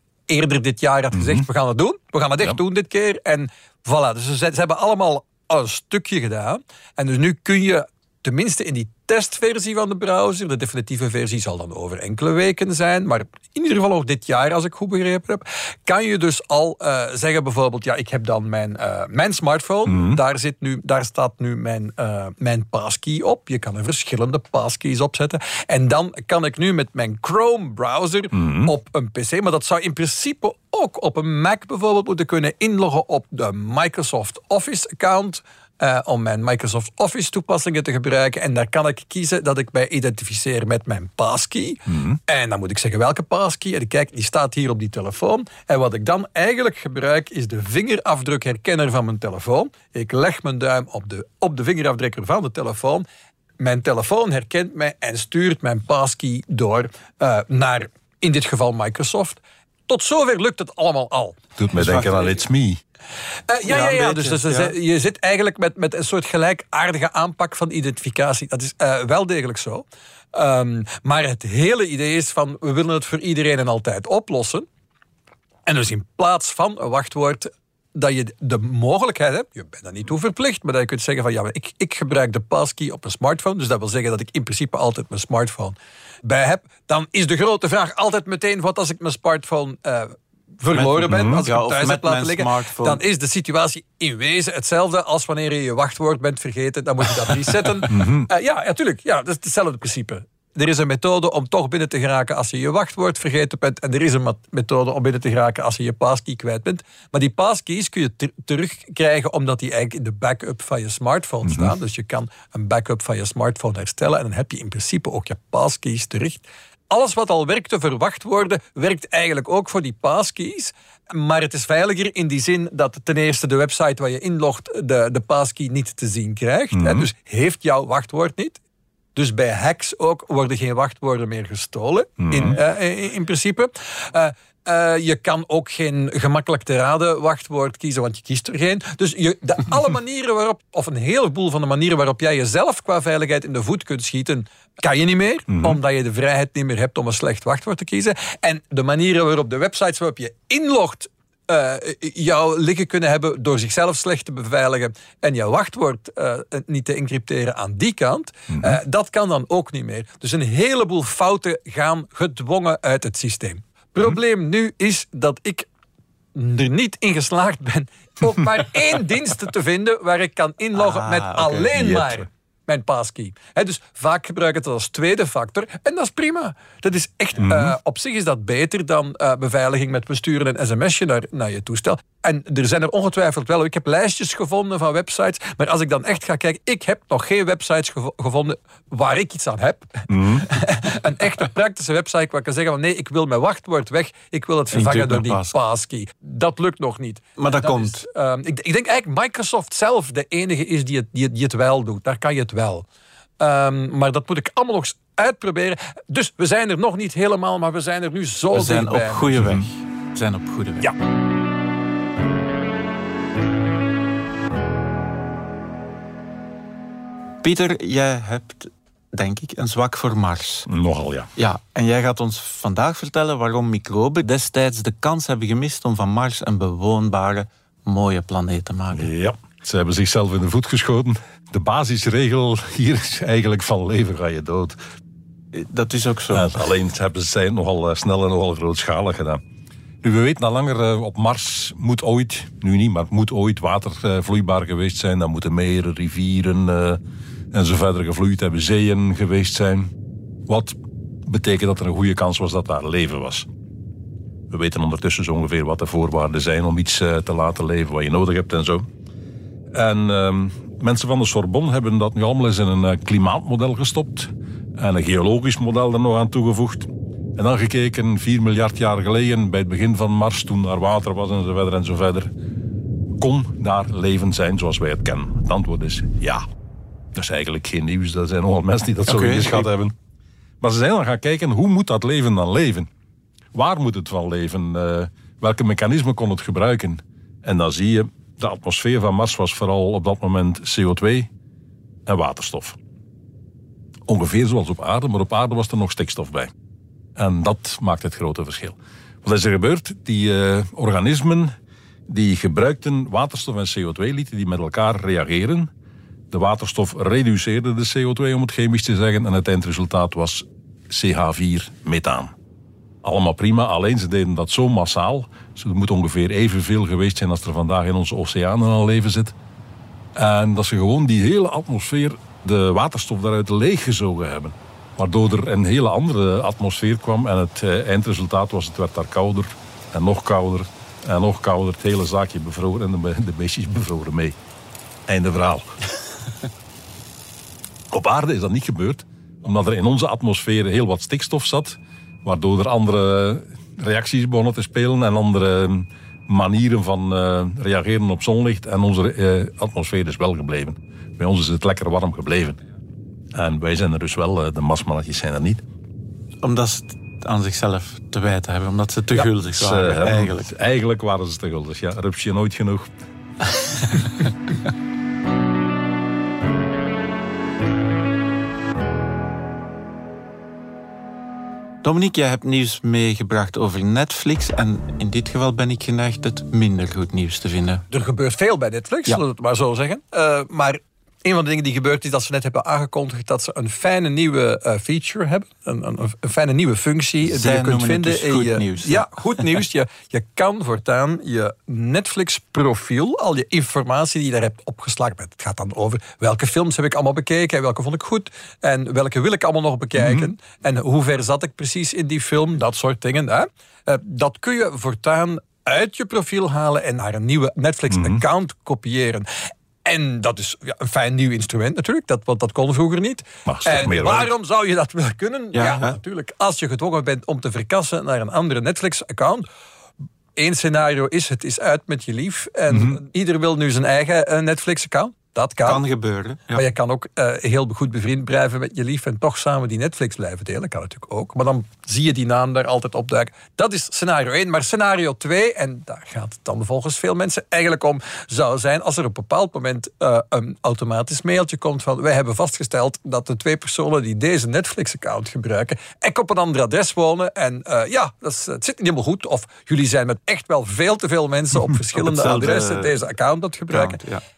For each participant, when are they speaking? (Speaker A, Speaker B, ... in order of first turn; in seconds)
Speaker A: 0.3-53.0, 53.6-61.4, 63.5-74.7, 75.7-128.6, 129.2-165.7, 166.3-202.9, 203.4-209.4, 377.9-409.3, 409.9-419.5, 420.4-425.8, 426.5-454.0
Speaker B: 1.1-1.4, 19.9-20.2, 28.3-28.7, 41.9-42.2, 61.6-62.8, 91.1-91.4, 97.9-98.3, 111.4-111.7, 126.7-127.1, 132.2-132.6, 145.5-145.8, 158.5-158.8, 171.7-172.3, 177.4-177.8, 190.1-190.5, 209.4-209.7, 220.7-221.3, 228.9-234.8, 236.3-239.4, 240.0-247.0, 247.5-249.9, 250.5-253.5, 254.5-258.9, 259.7-272.3, 273.2-276.5, 277.1-280.0, 280.6-282.9, 283.5-291.3, 292.1-292.8, 294.1-296.5, 297.2-301.6, 302.1-305.7, 306.3-312.3, 313.0-319.4, 320.1-334.4, 335.1-335.8, 337.9-352.6, 353.3-355.6, 359.1-362.9, 399.9-400.3, 407.9-408.2, 413.5-414.3, 422.7-423.0
Speaker C: 61.8-62.4, 63.7-64.7, 90.7-93.0, 170.7-171.7, 194.7-195.6, 197.4-198.0, 208.5-210.9, 217.4-220.7, 221.4-229.1, 235.5-236.5, 279.1-279.7, 356.4-360.5, 371.8-377.8, 387.2-389.1, 415.5-416.0, 425.6-426.6, 452.0-453.0, 453.7-454.2